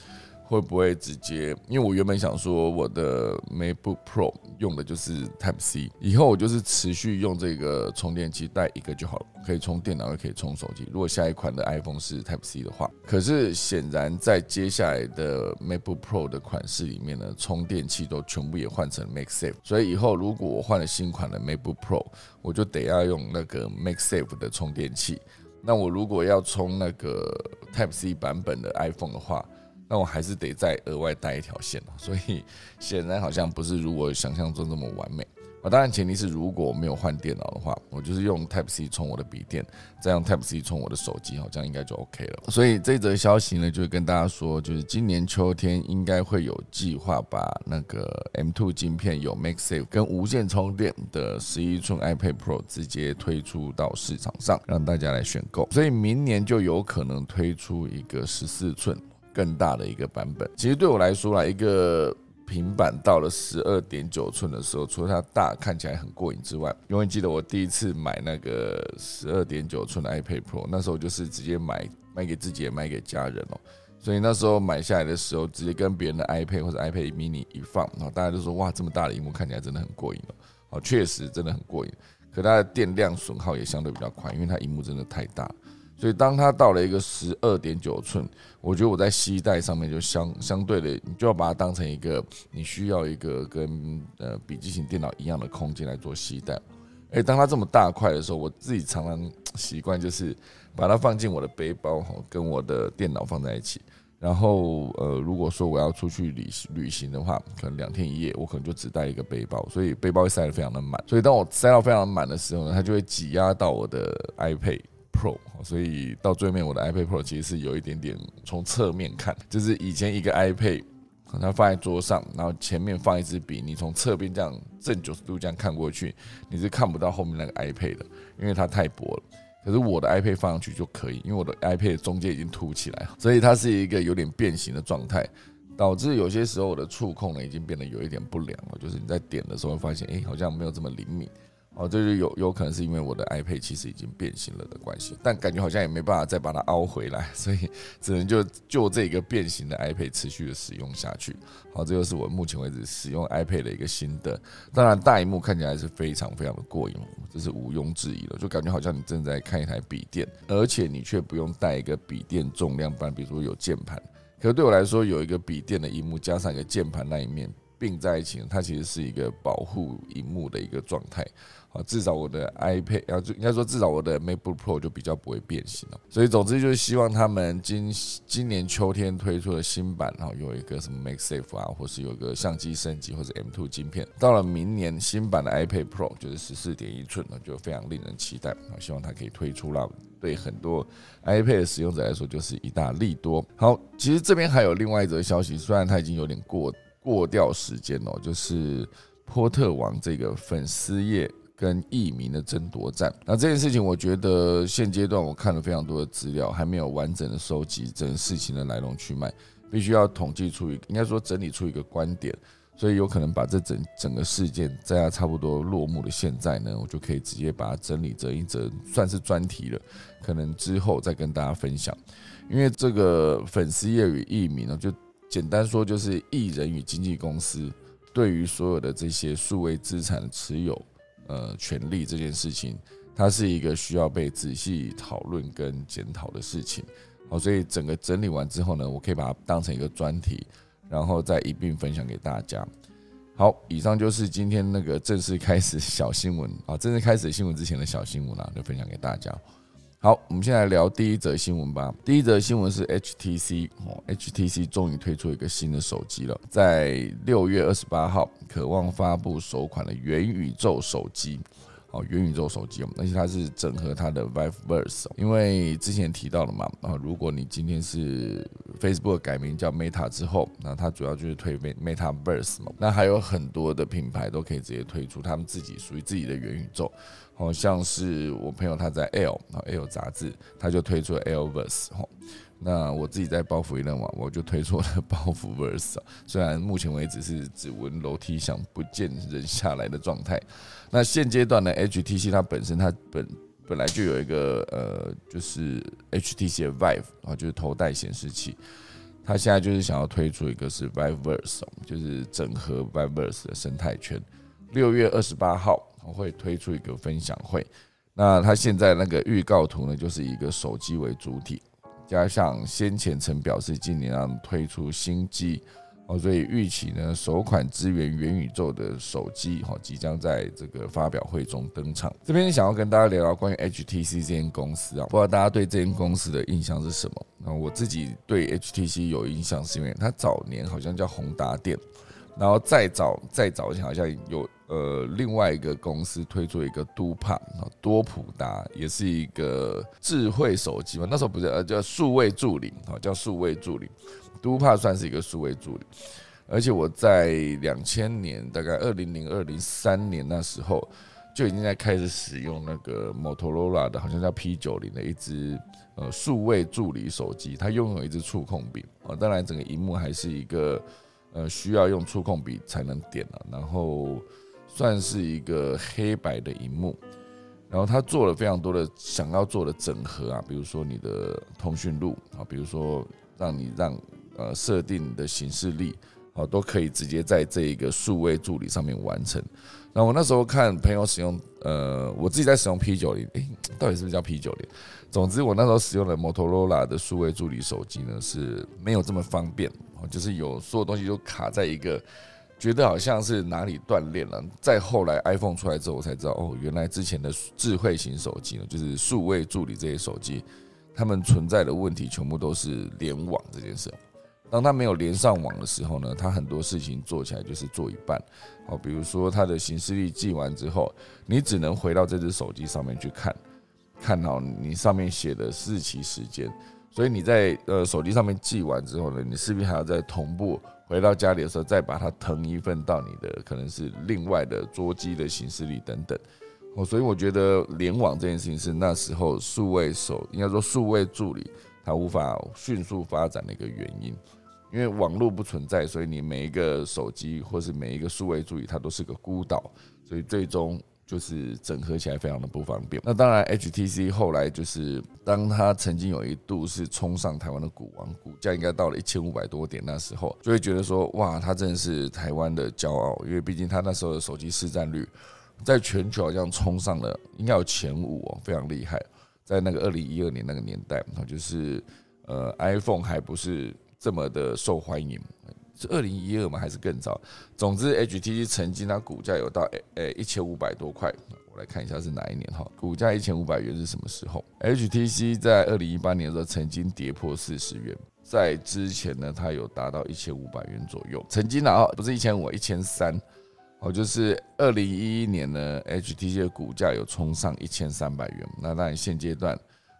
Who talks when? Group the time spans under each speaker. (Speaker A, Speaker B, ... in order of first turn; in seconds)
Speaker A: 0.4-242.7, 243.3-249.4, 250.0-298.6, 299.2-331.8, 332.4-345.8, 346.5-367.0, 367.7-392.0, 392.6-404.0, 404.5-413.4, 414.0-426.2, 426.7-434.2, 434.7-455.1, 455.6-483.2, 483.8-489.6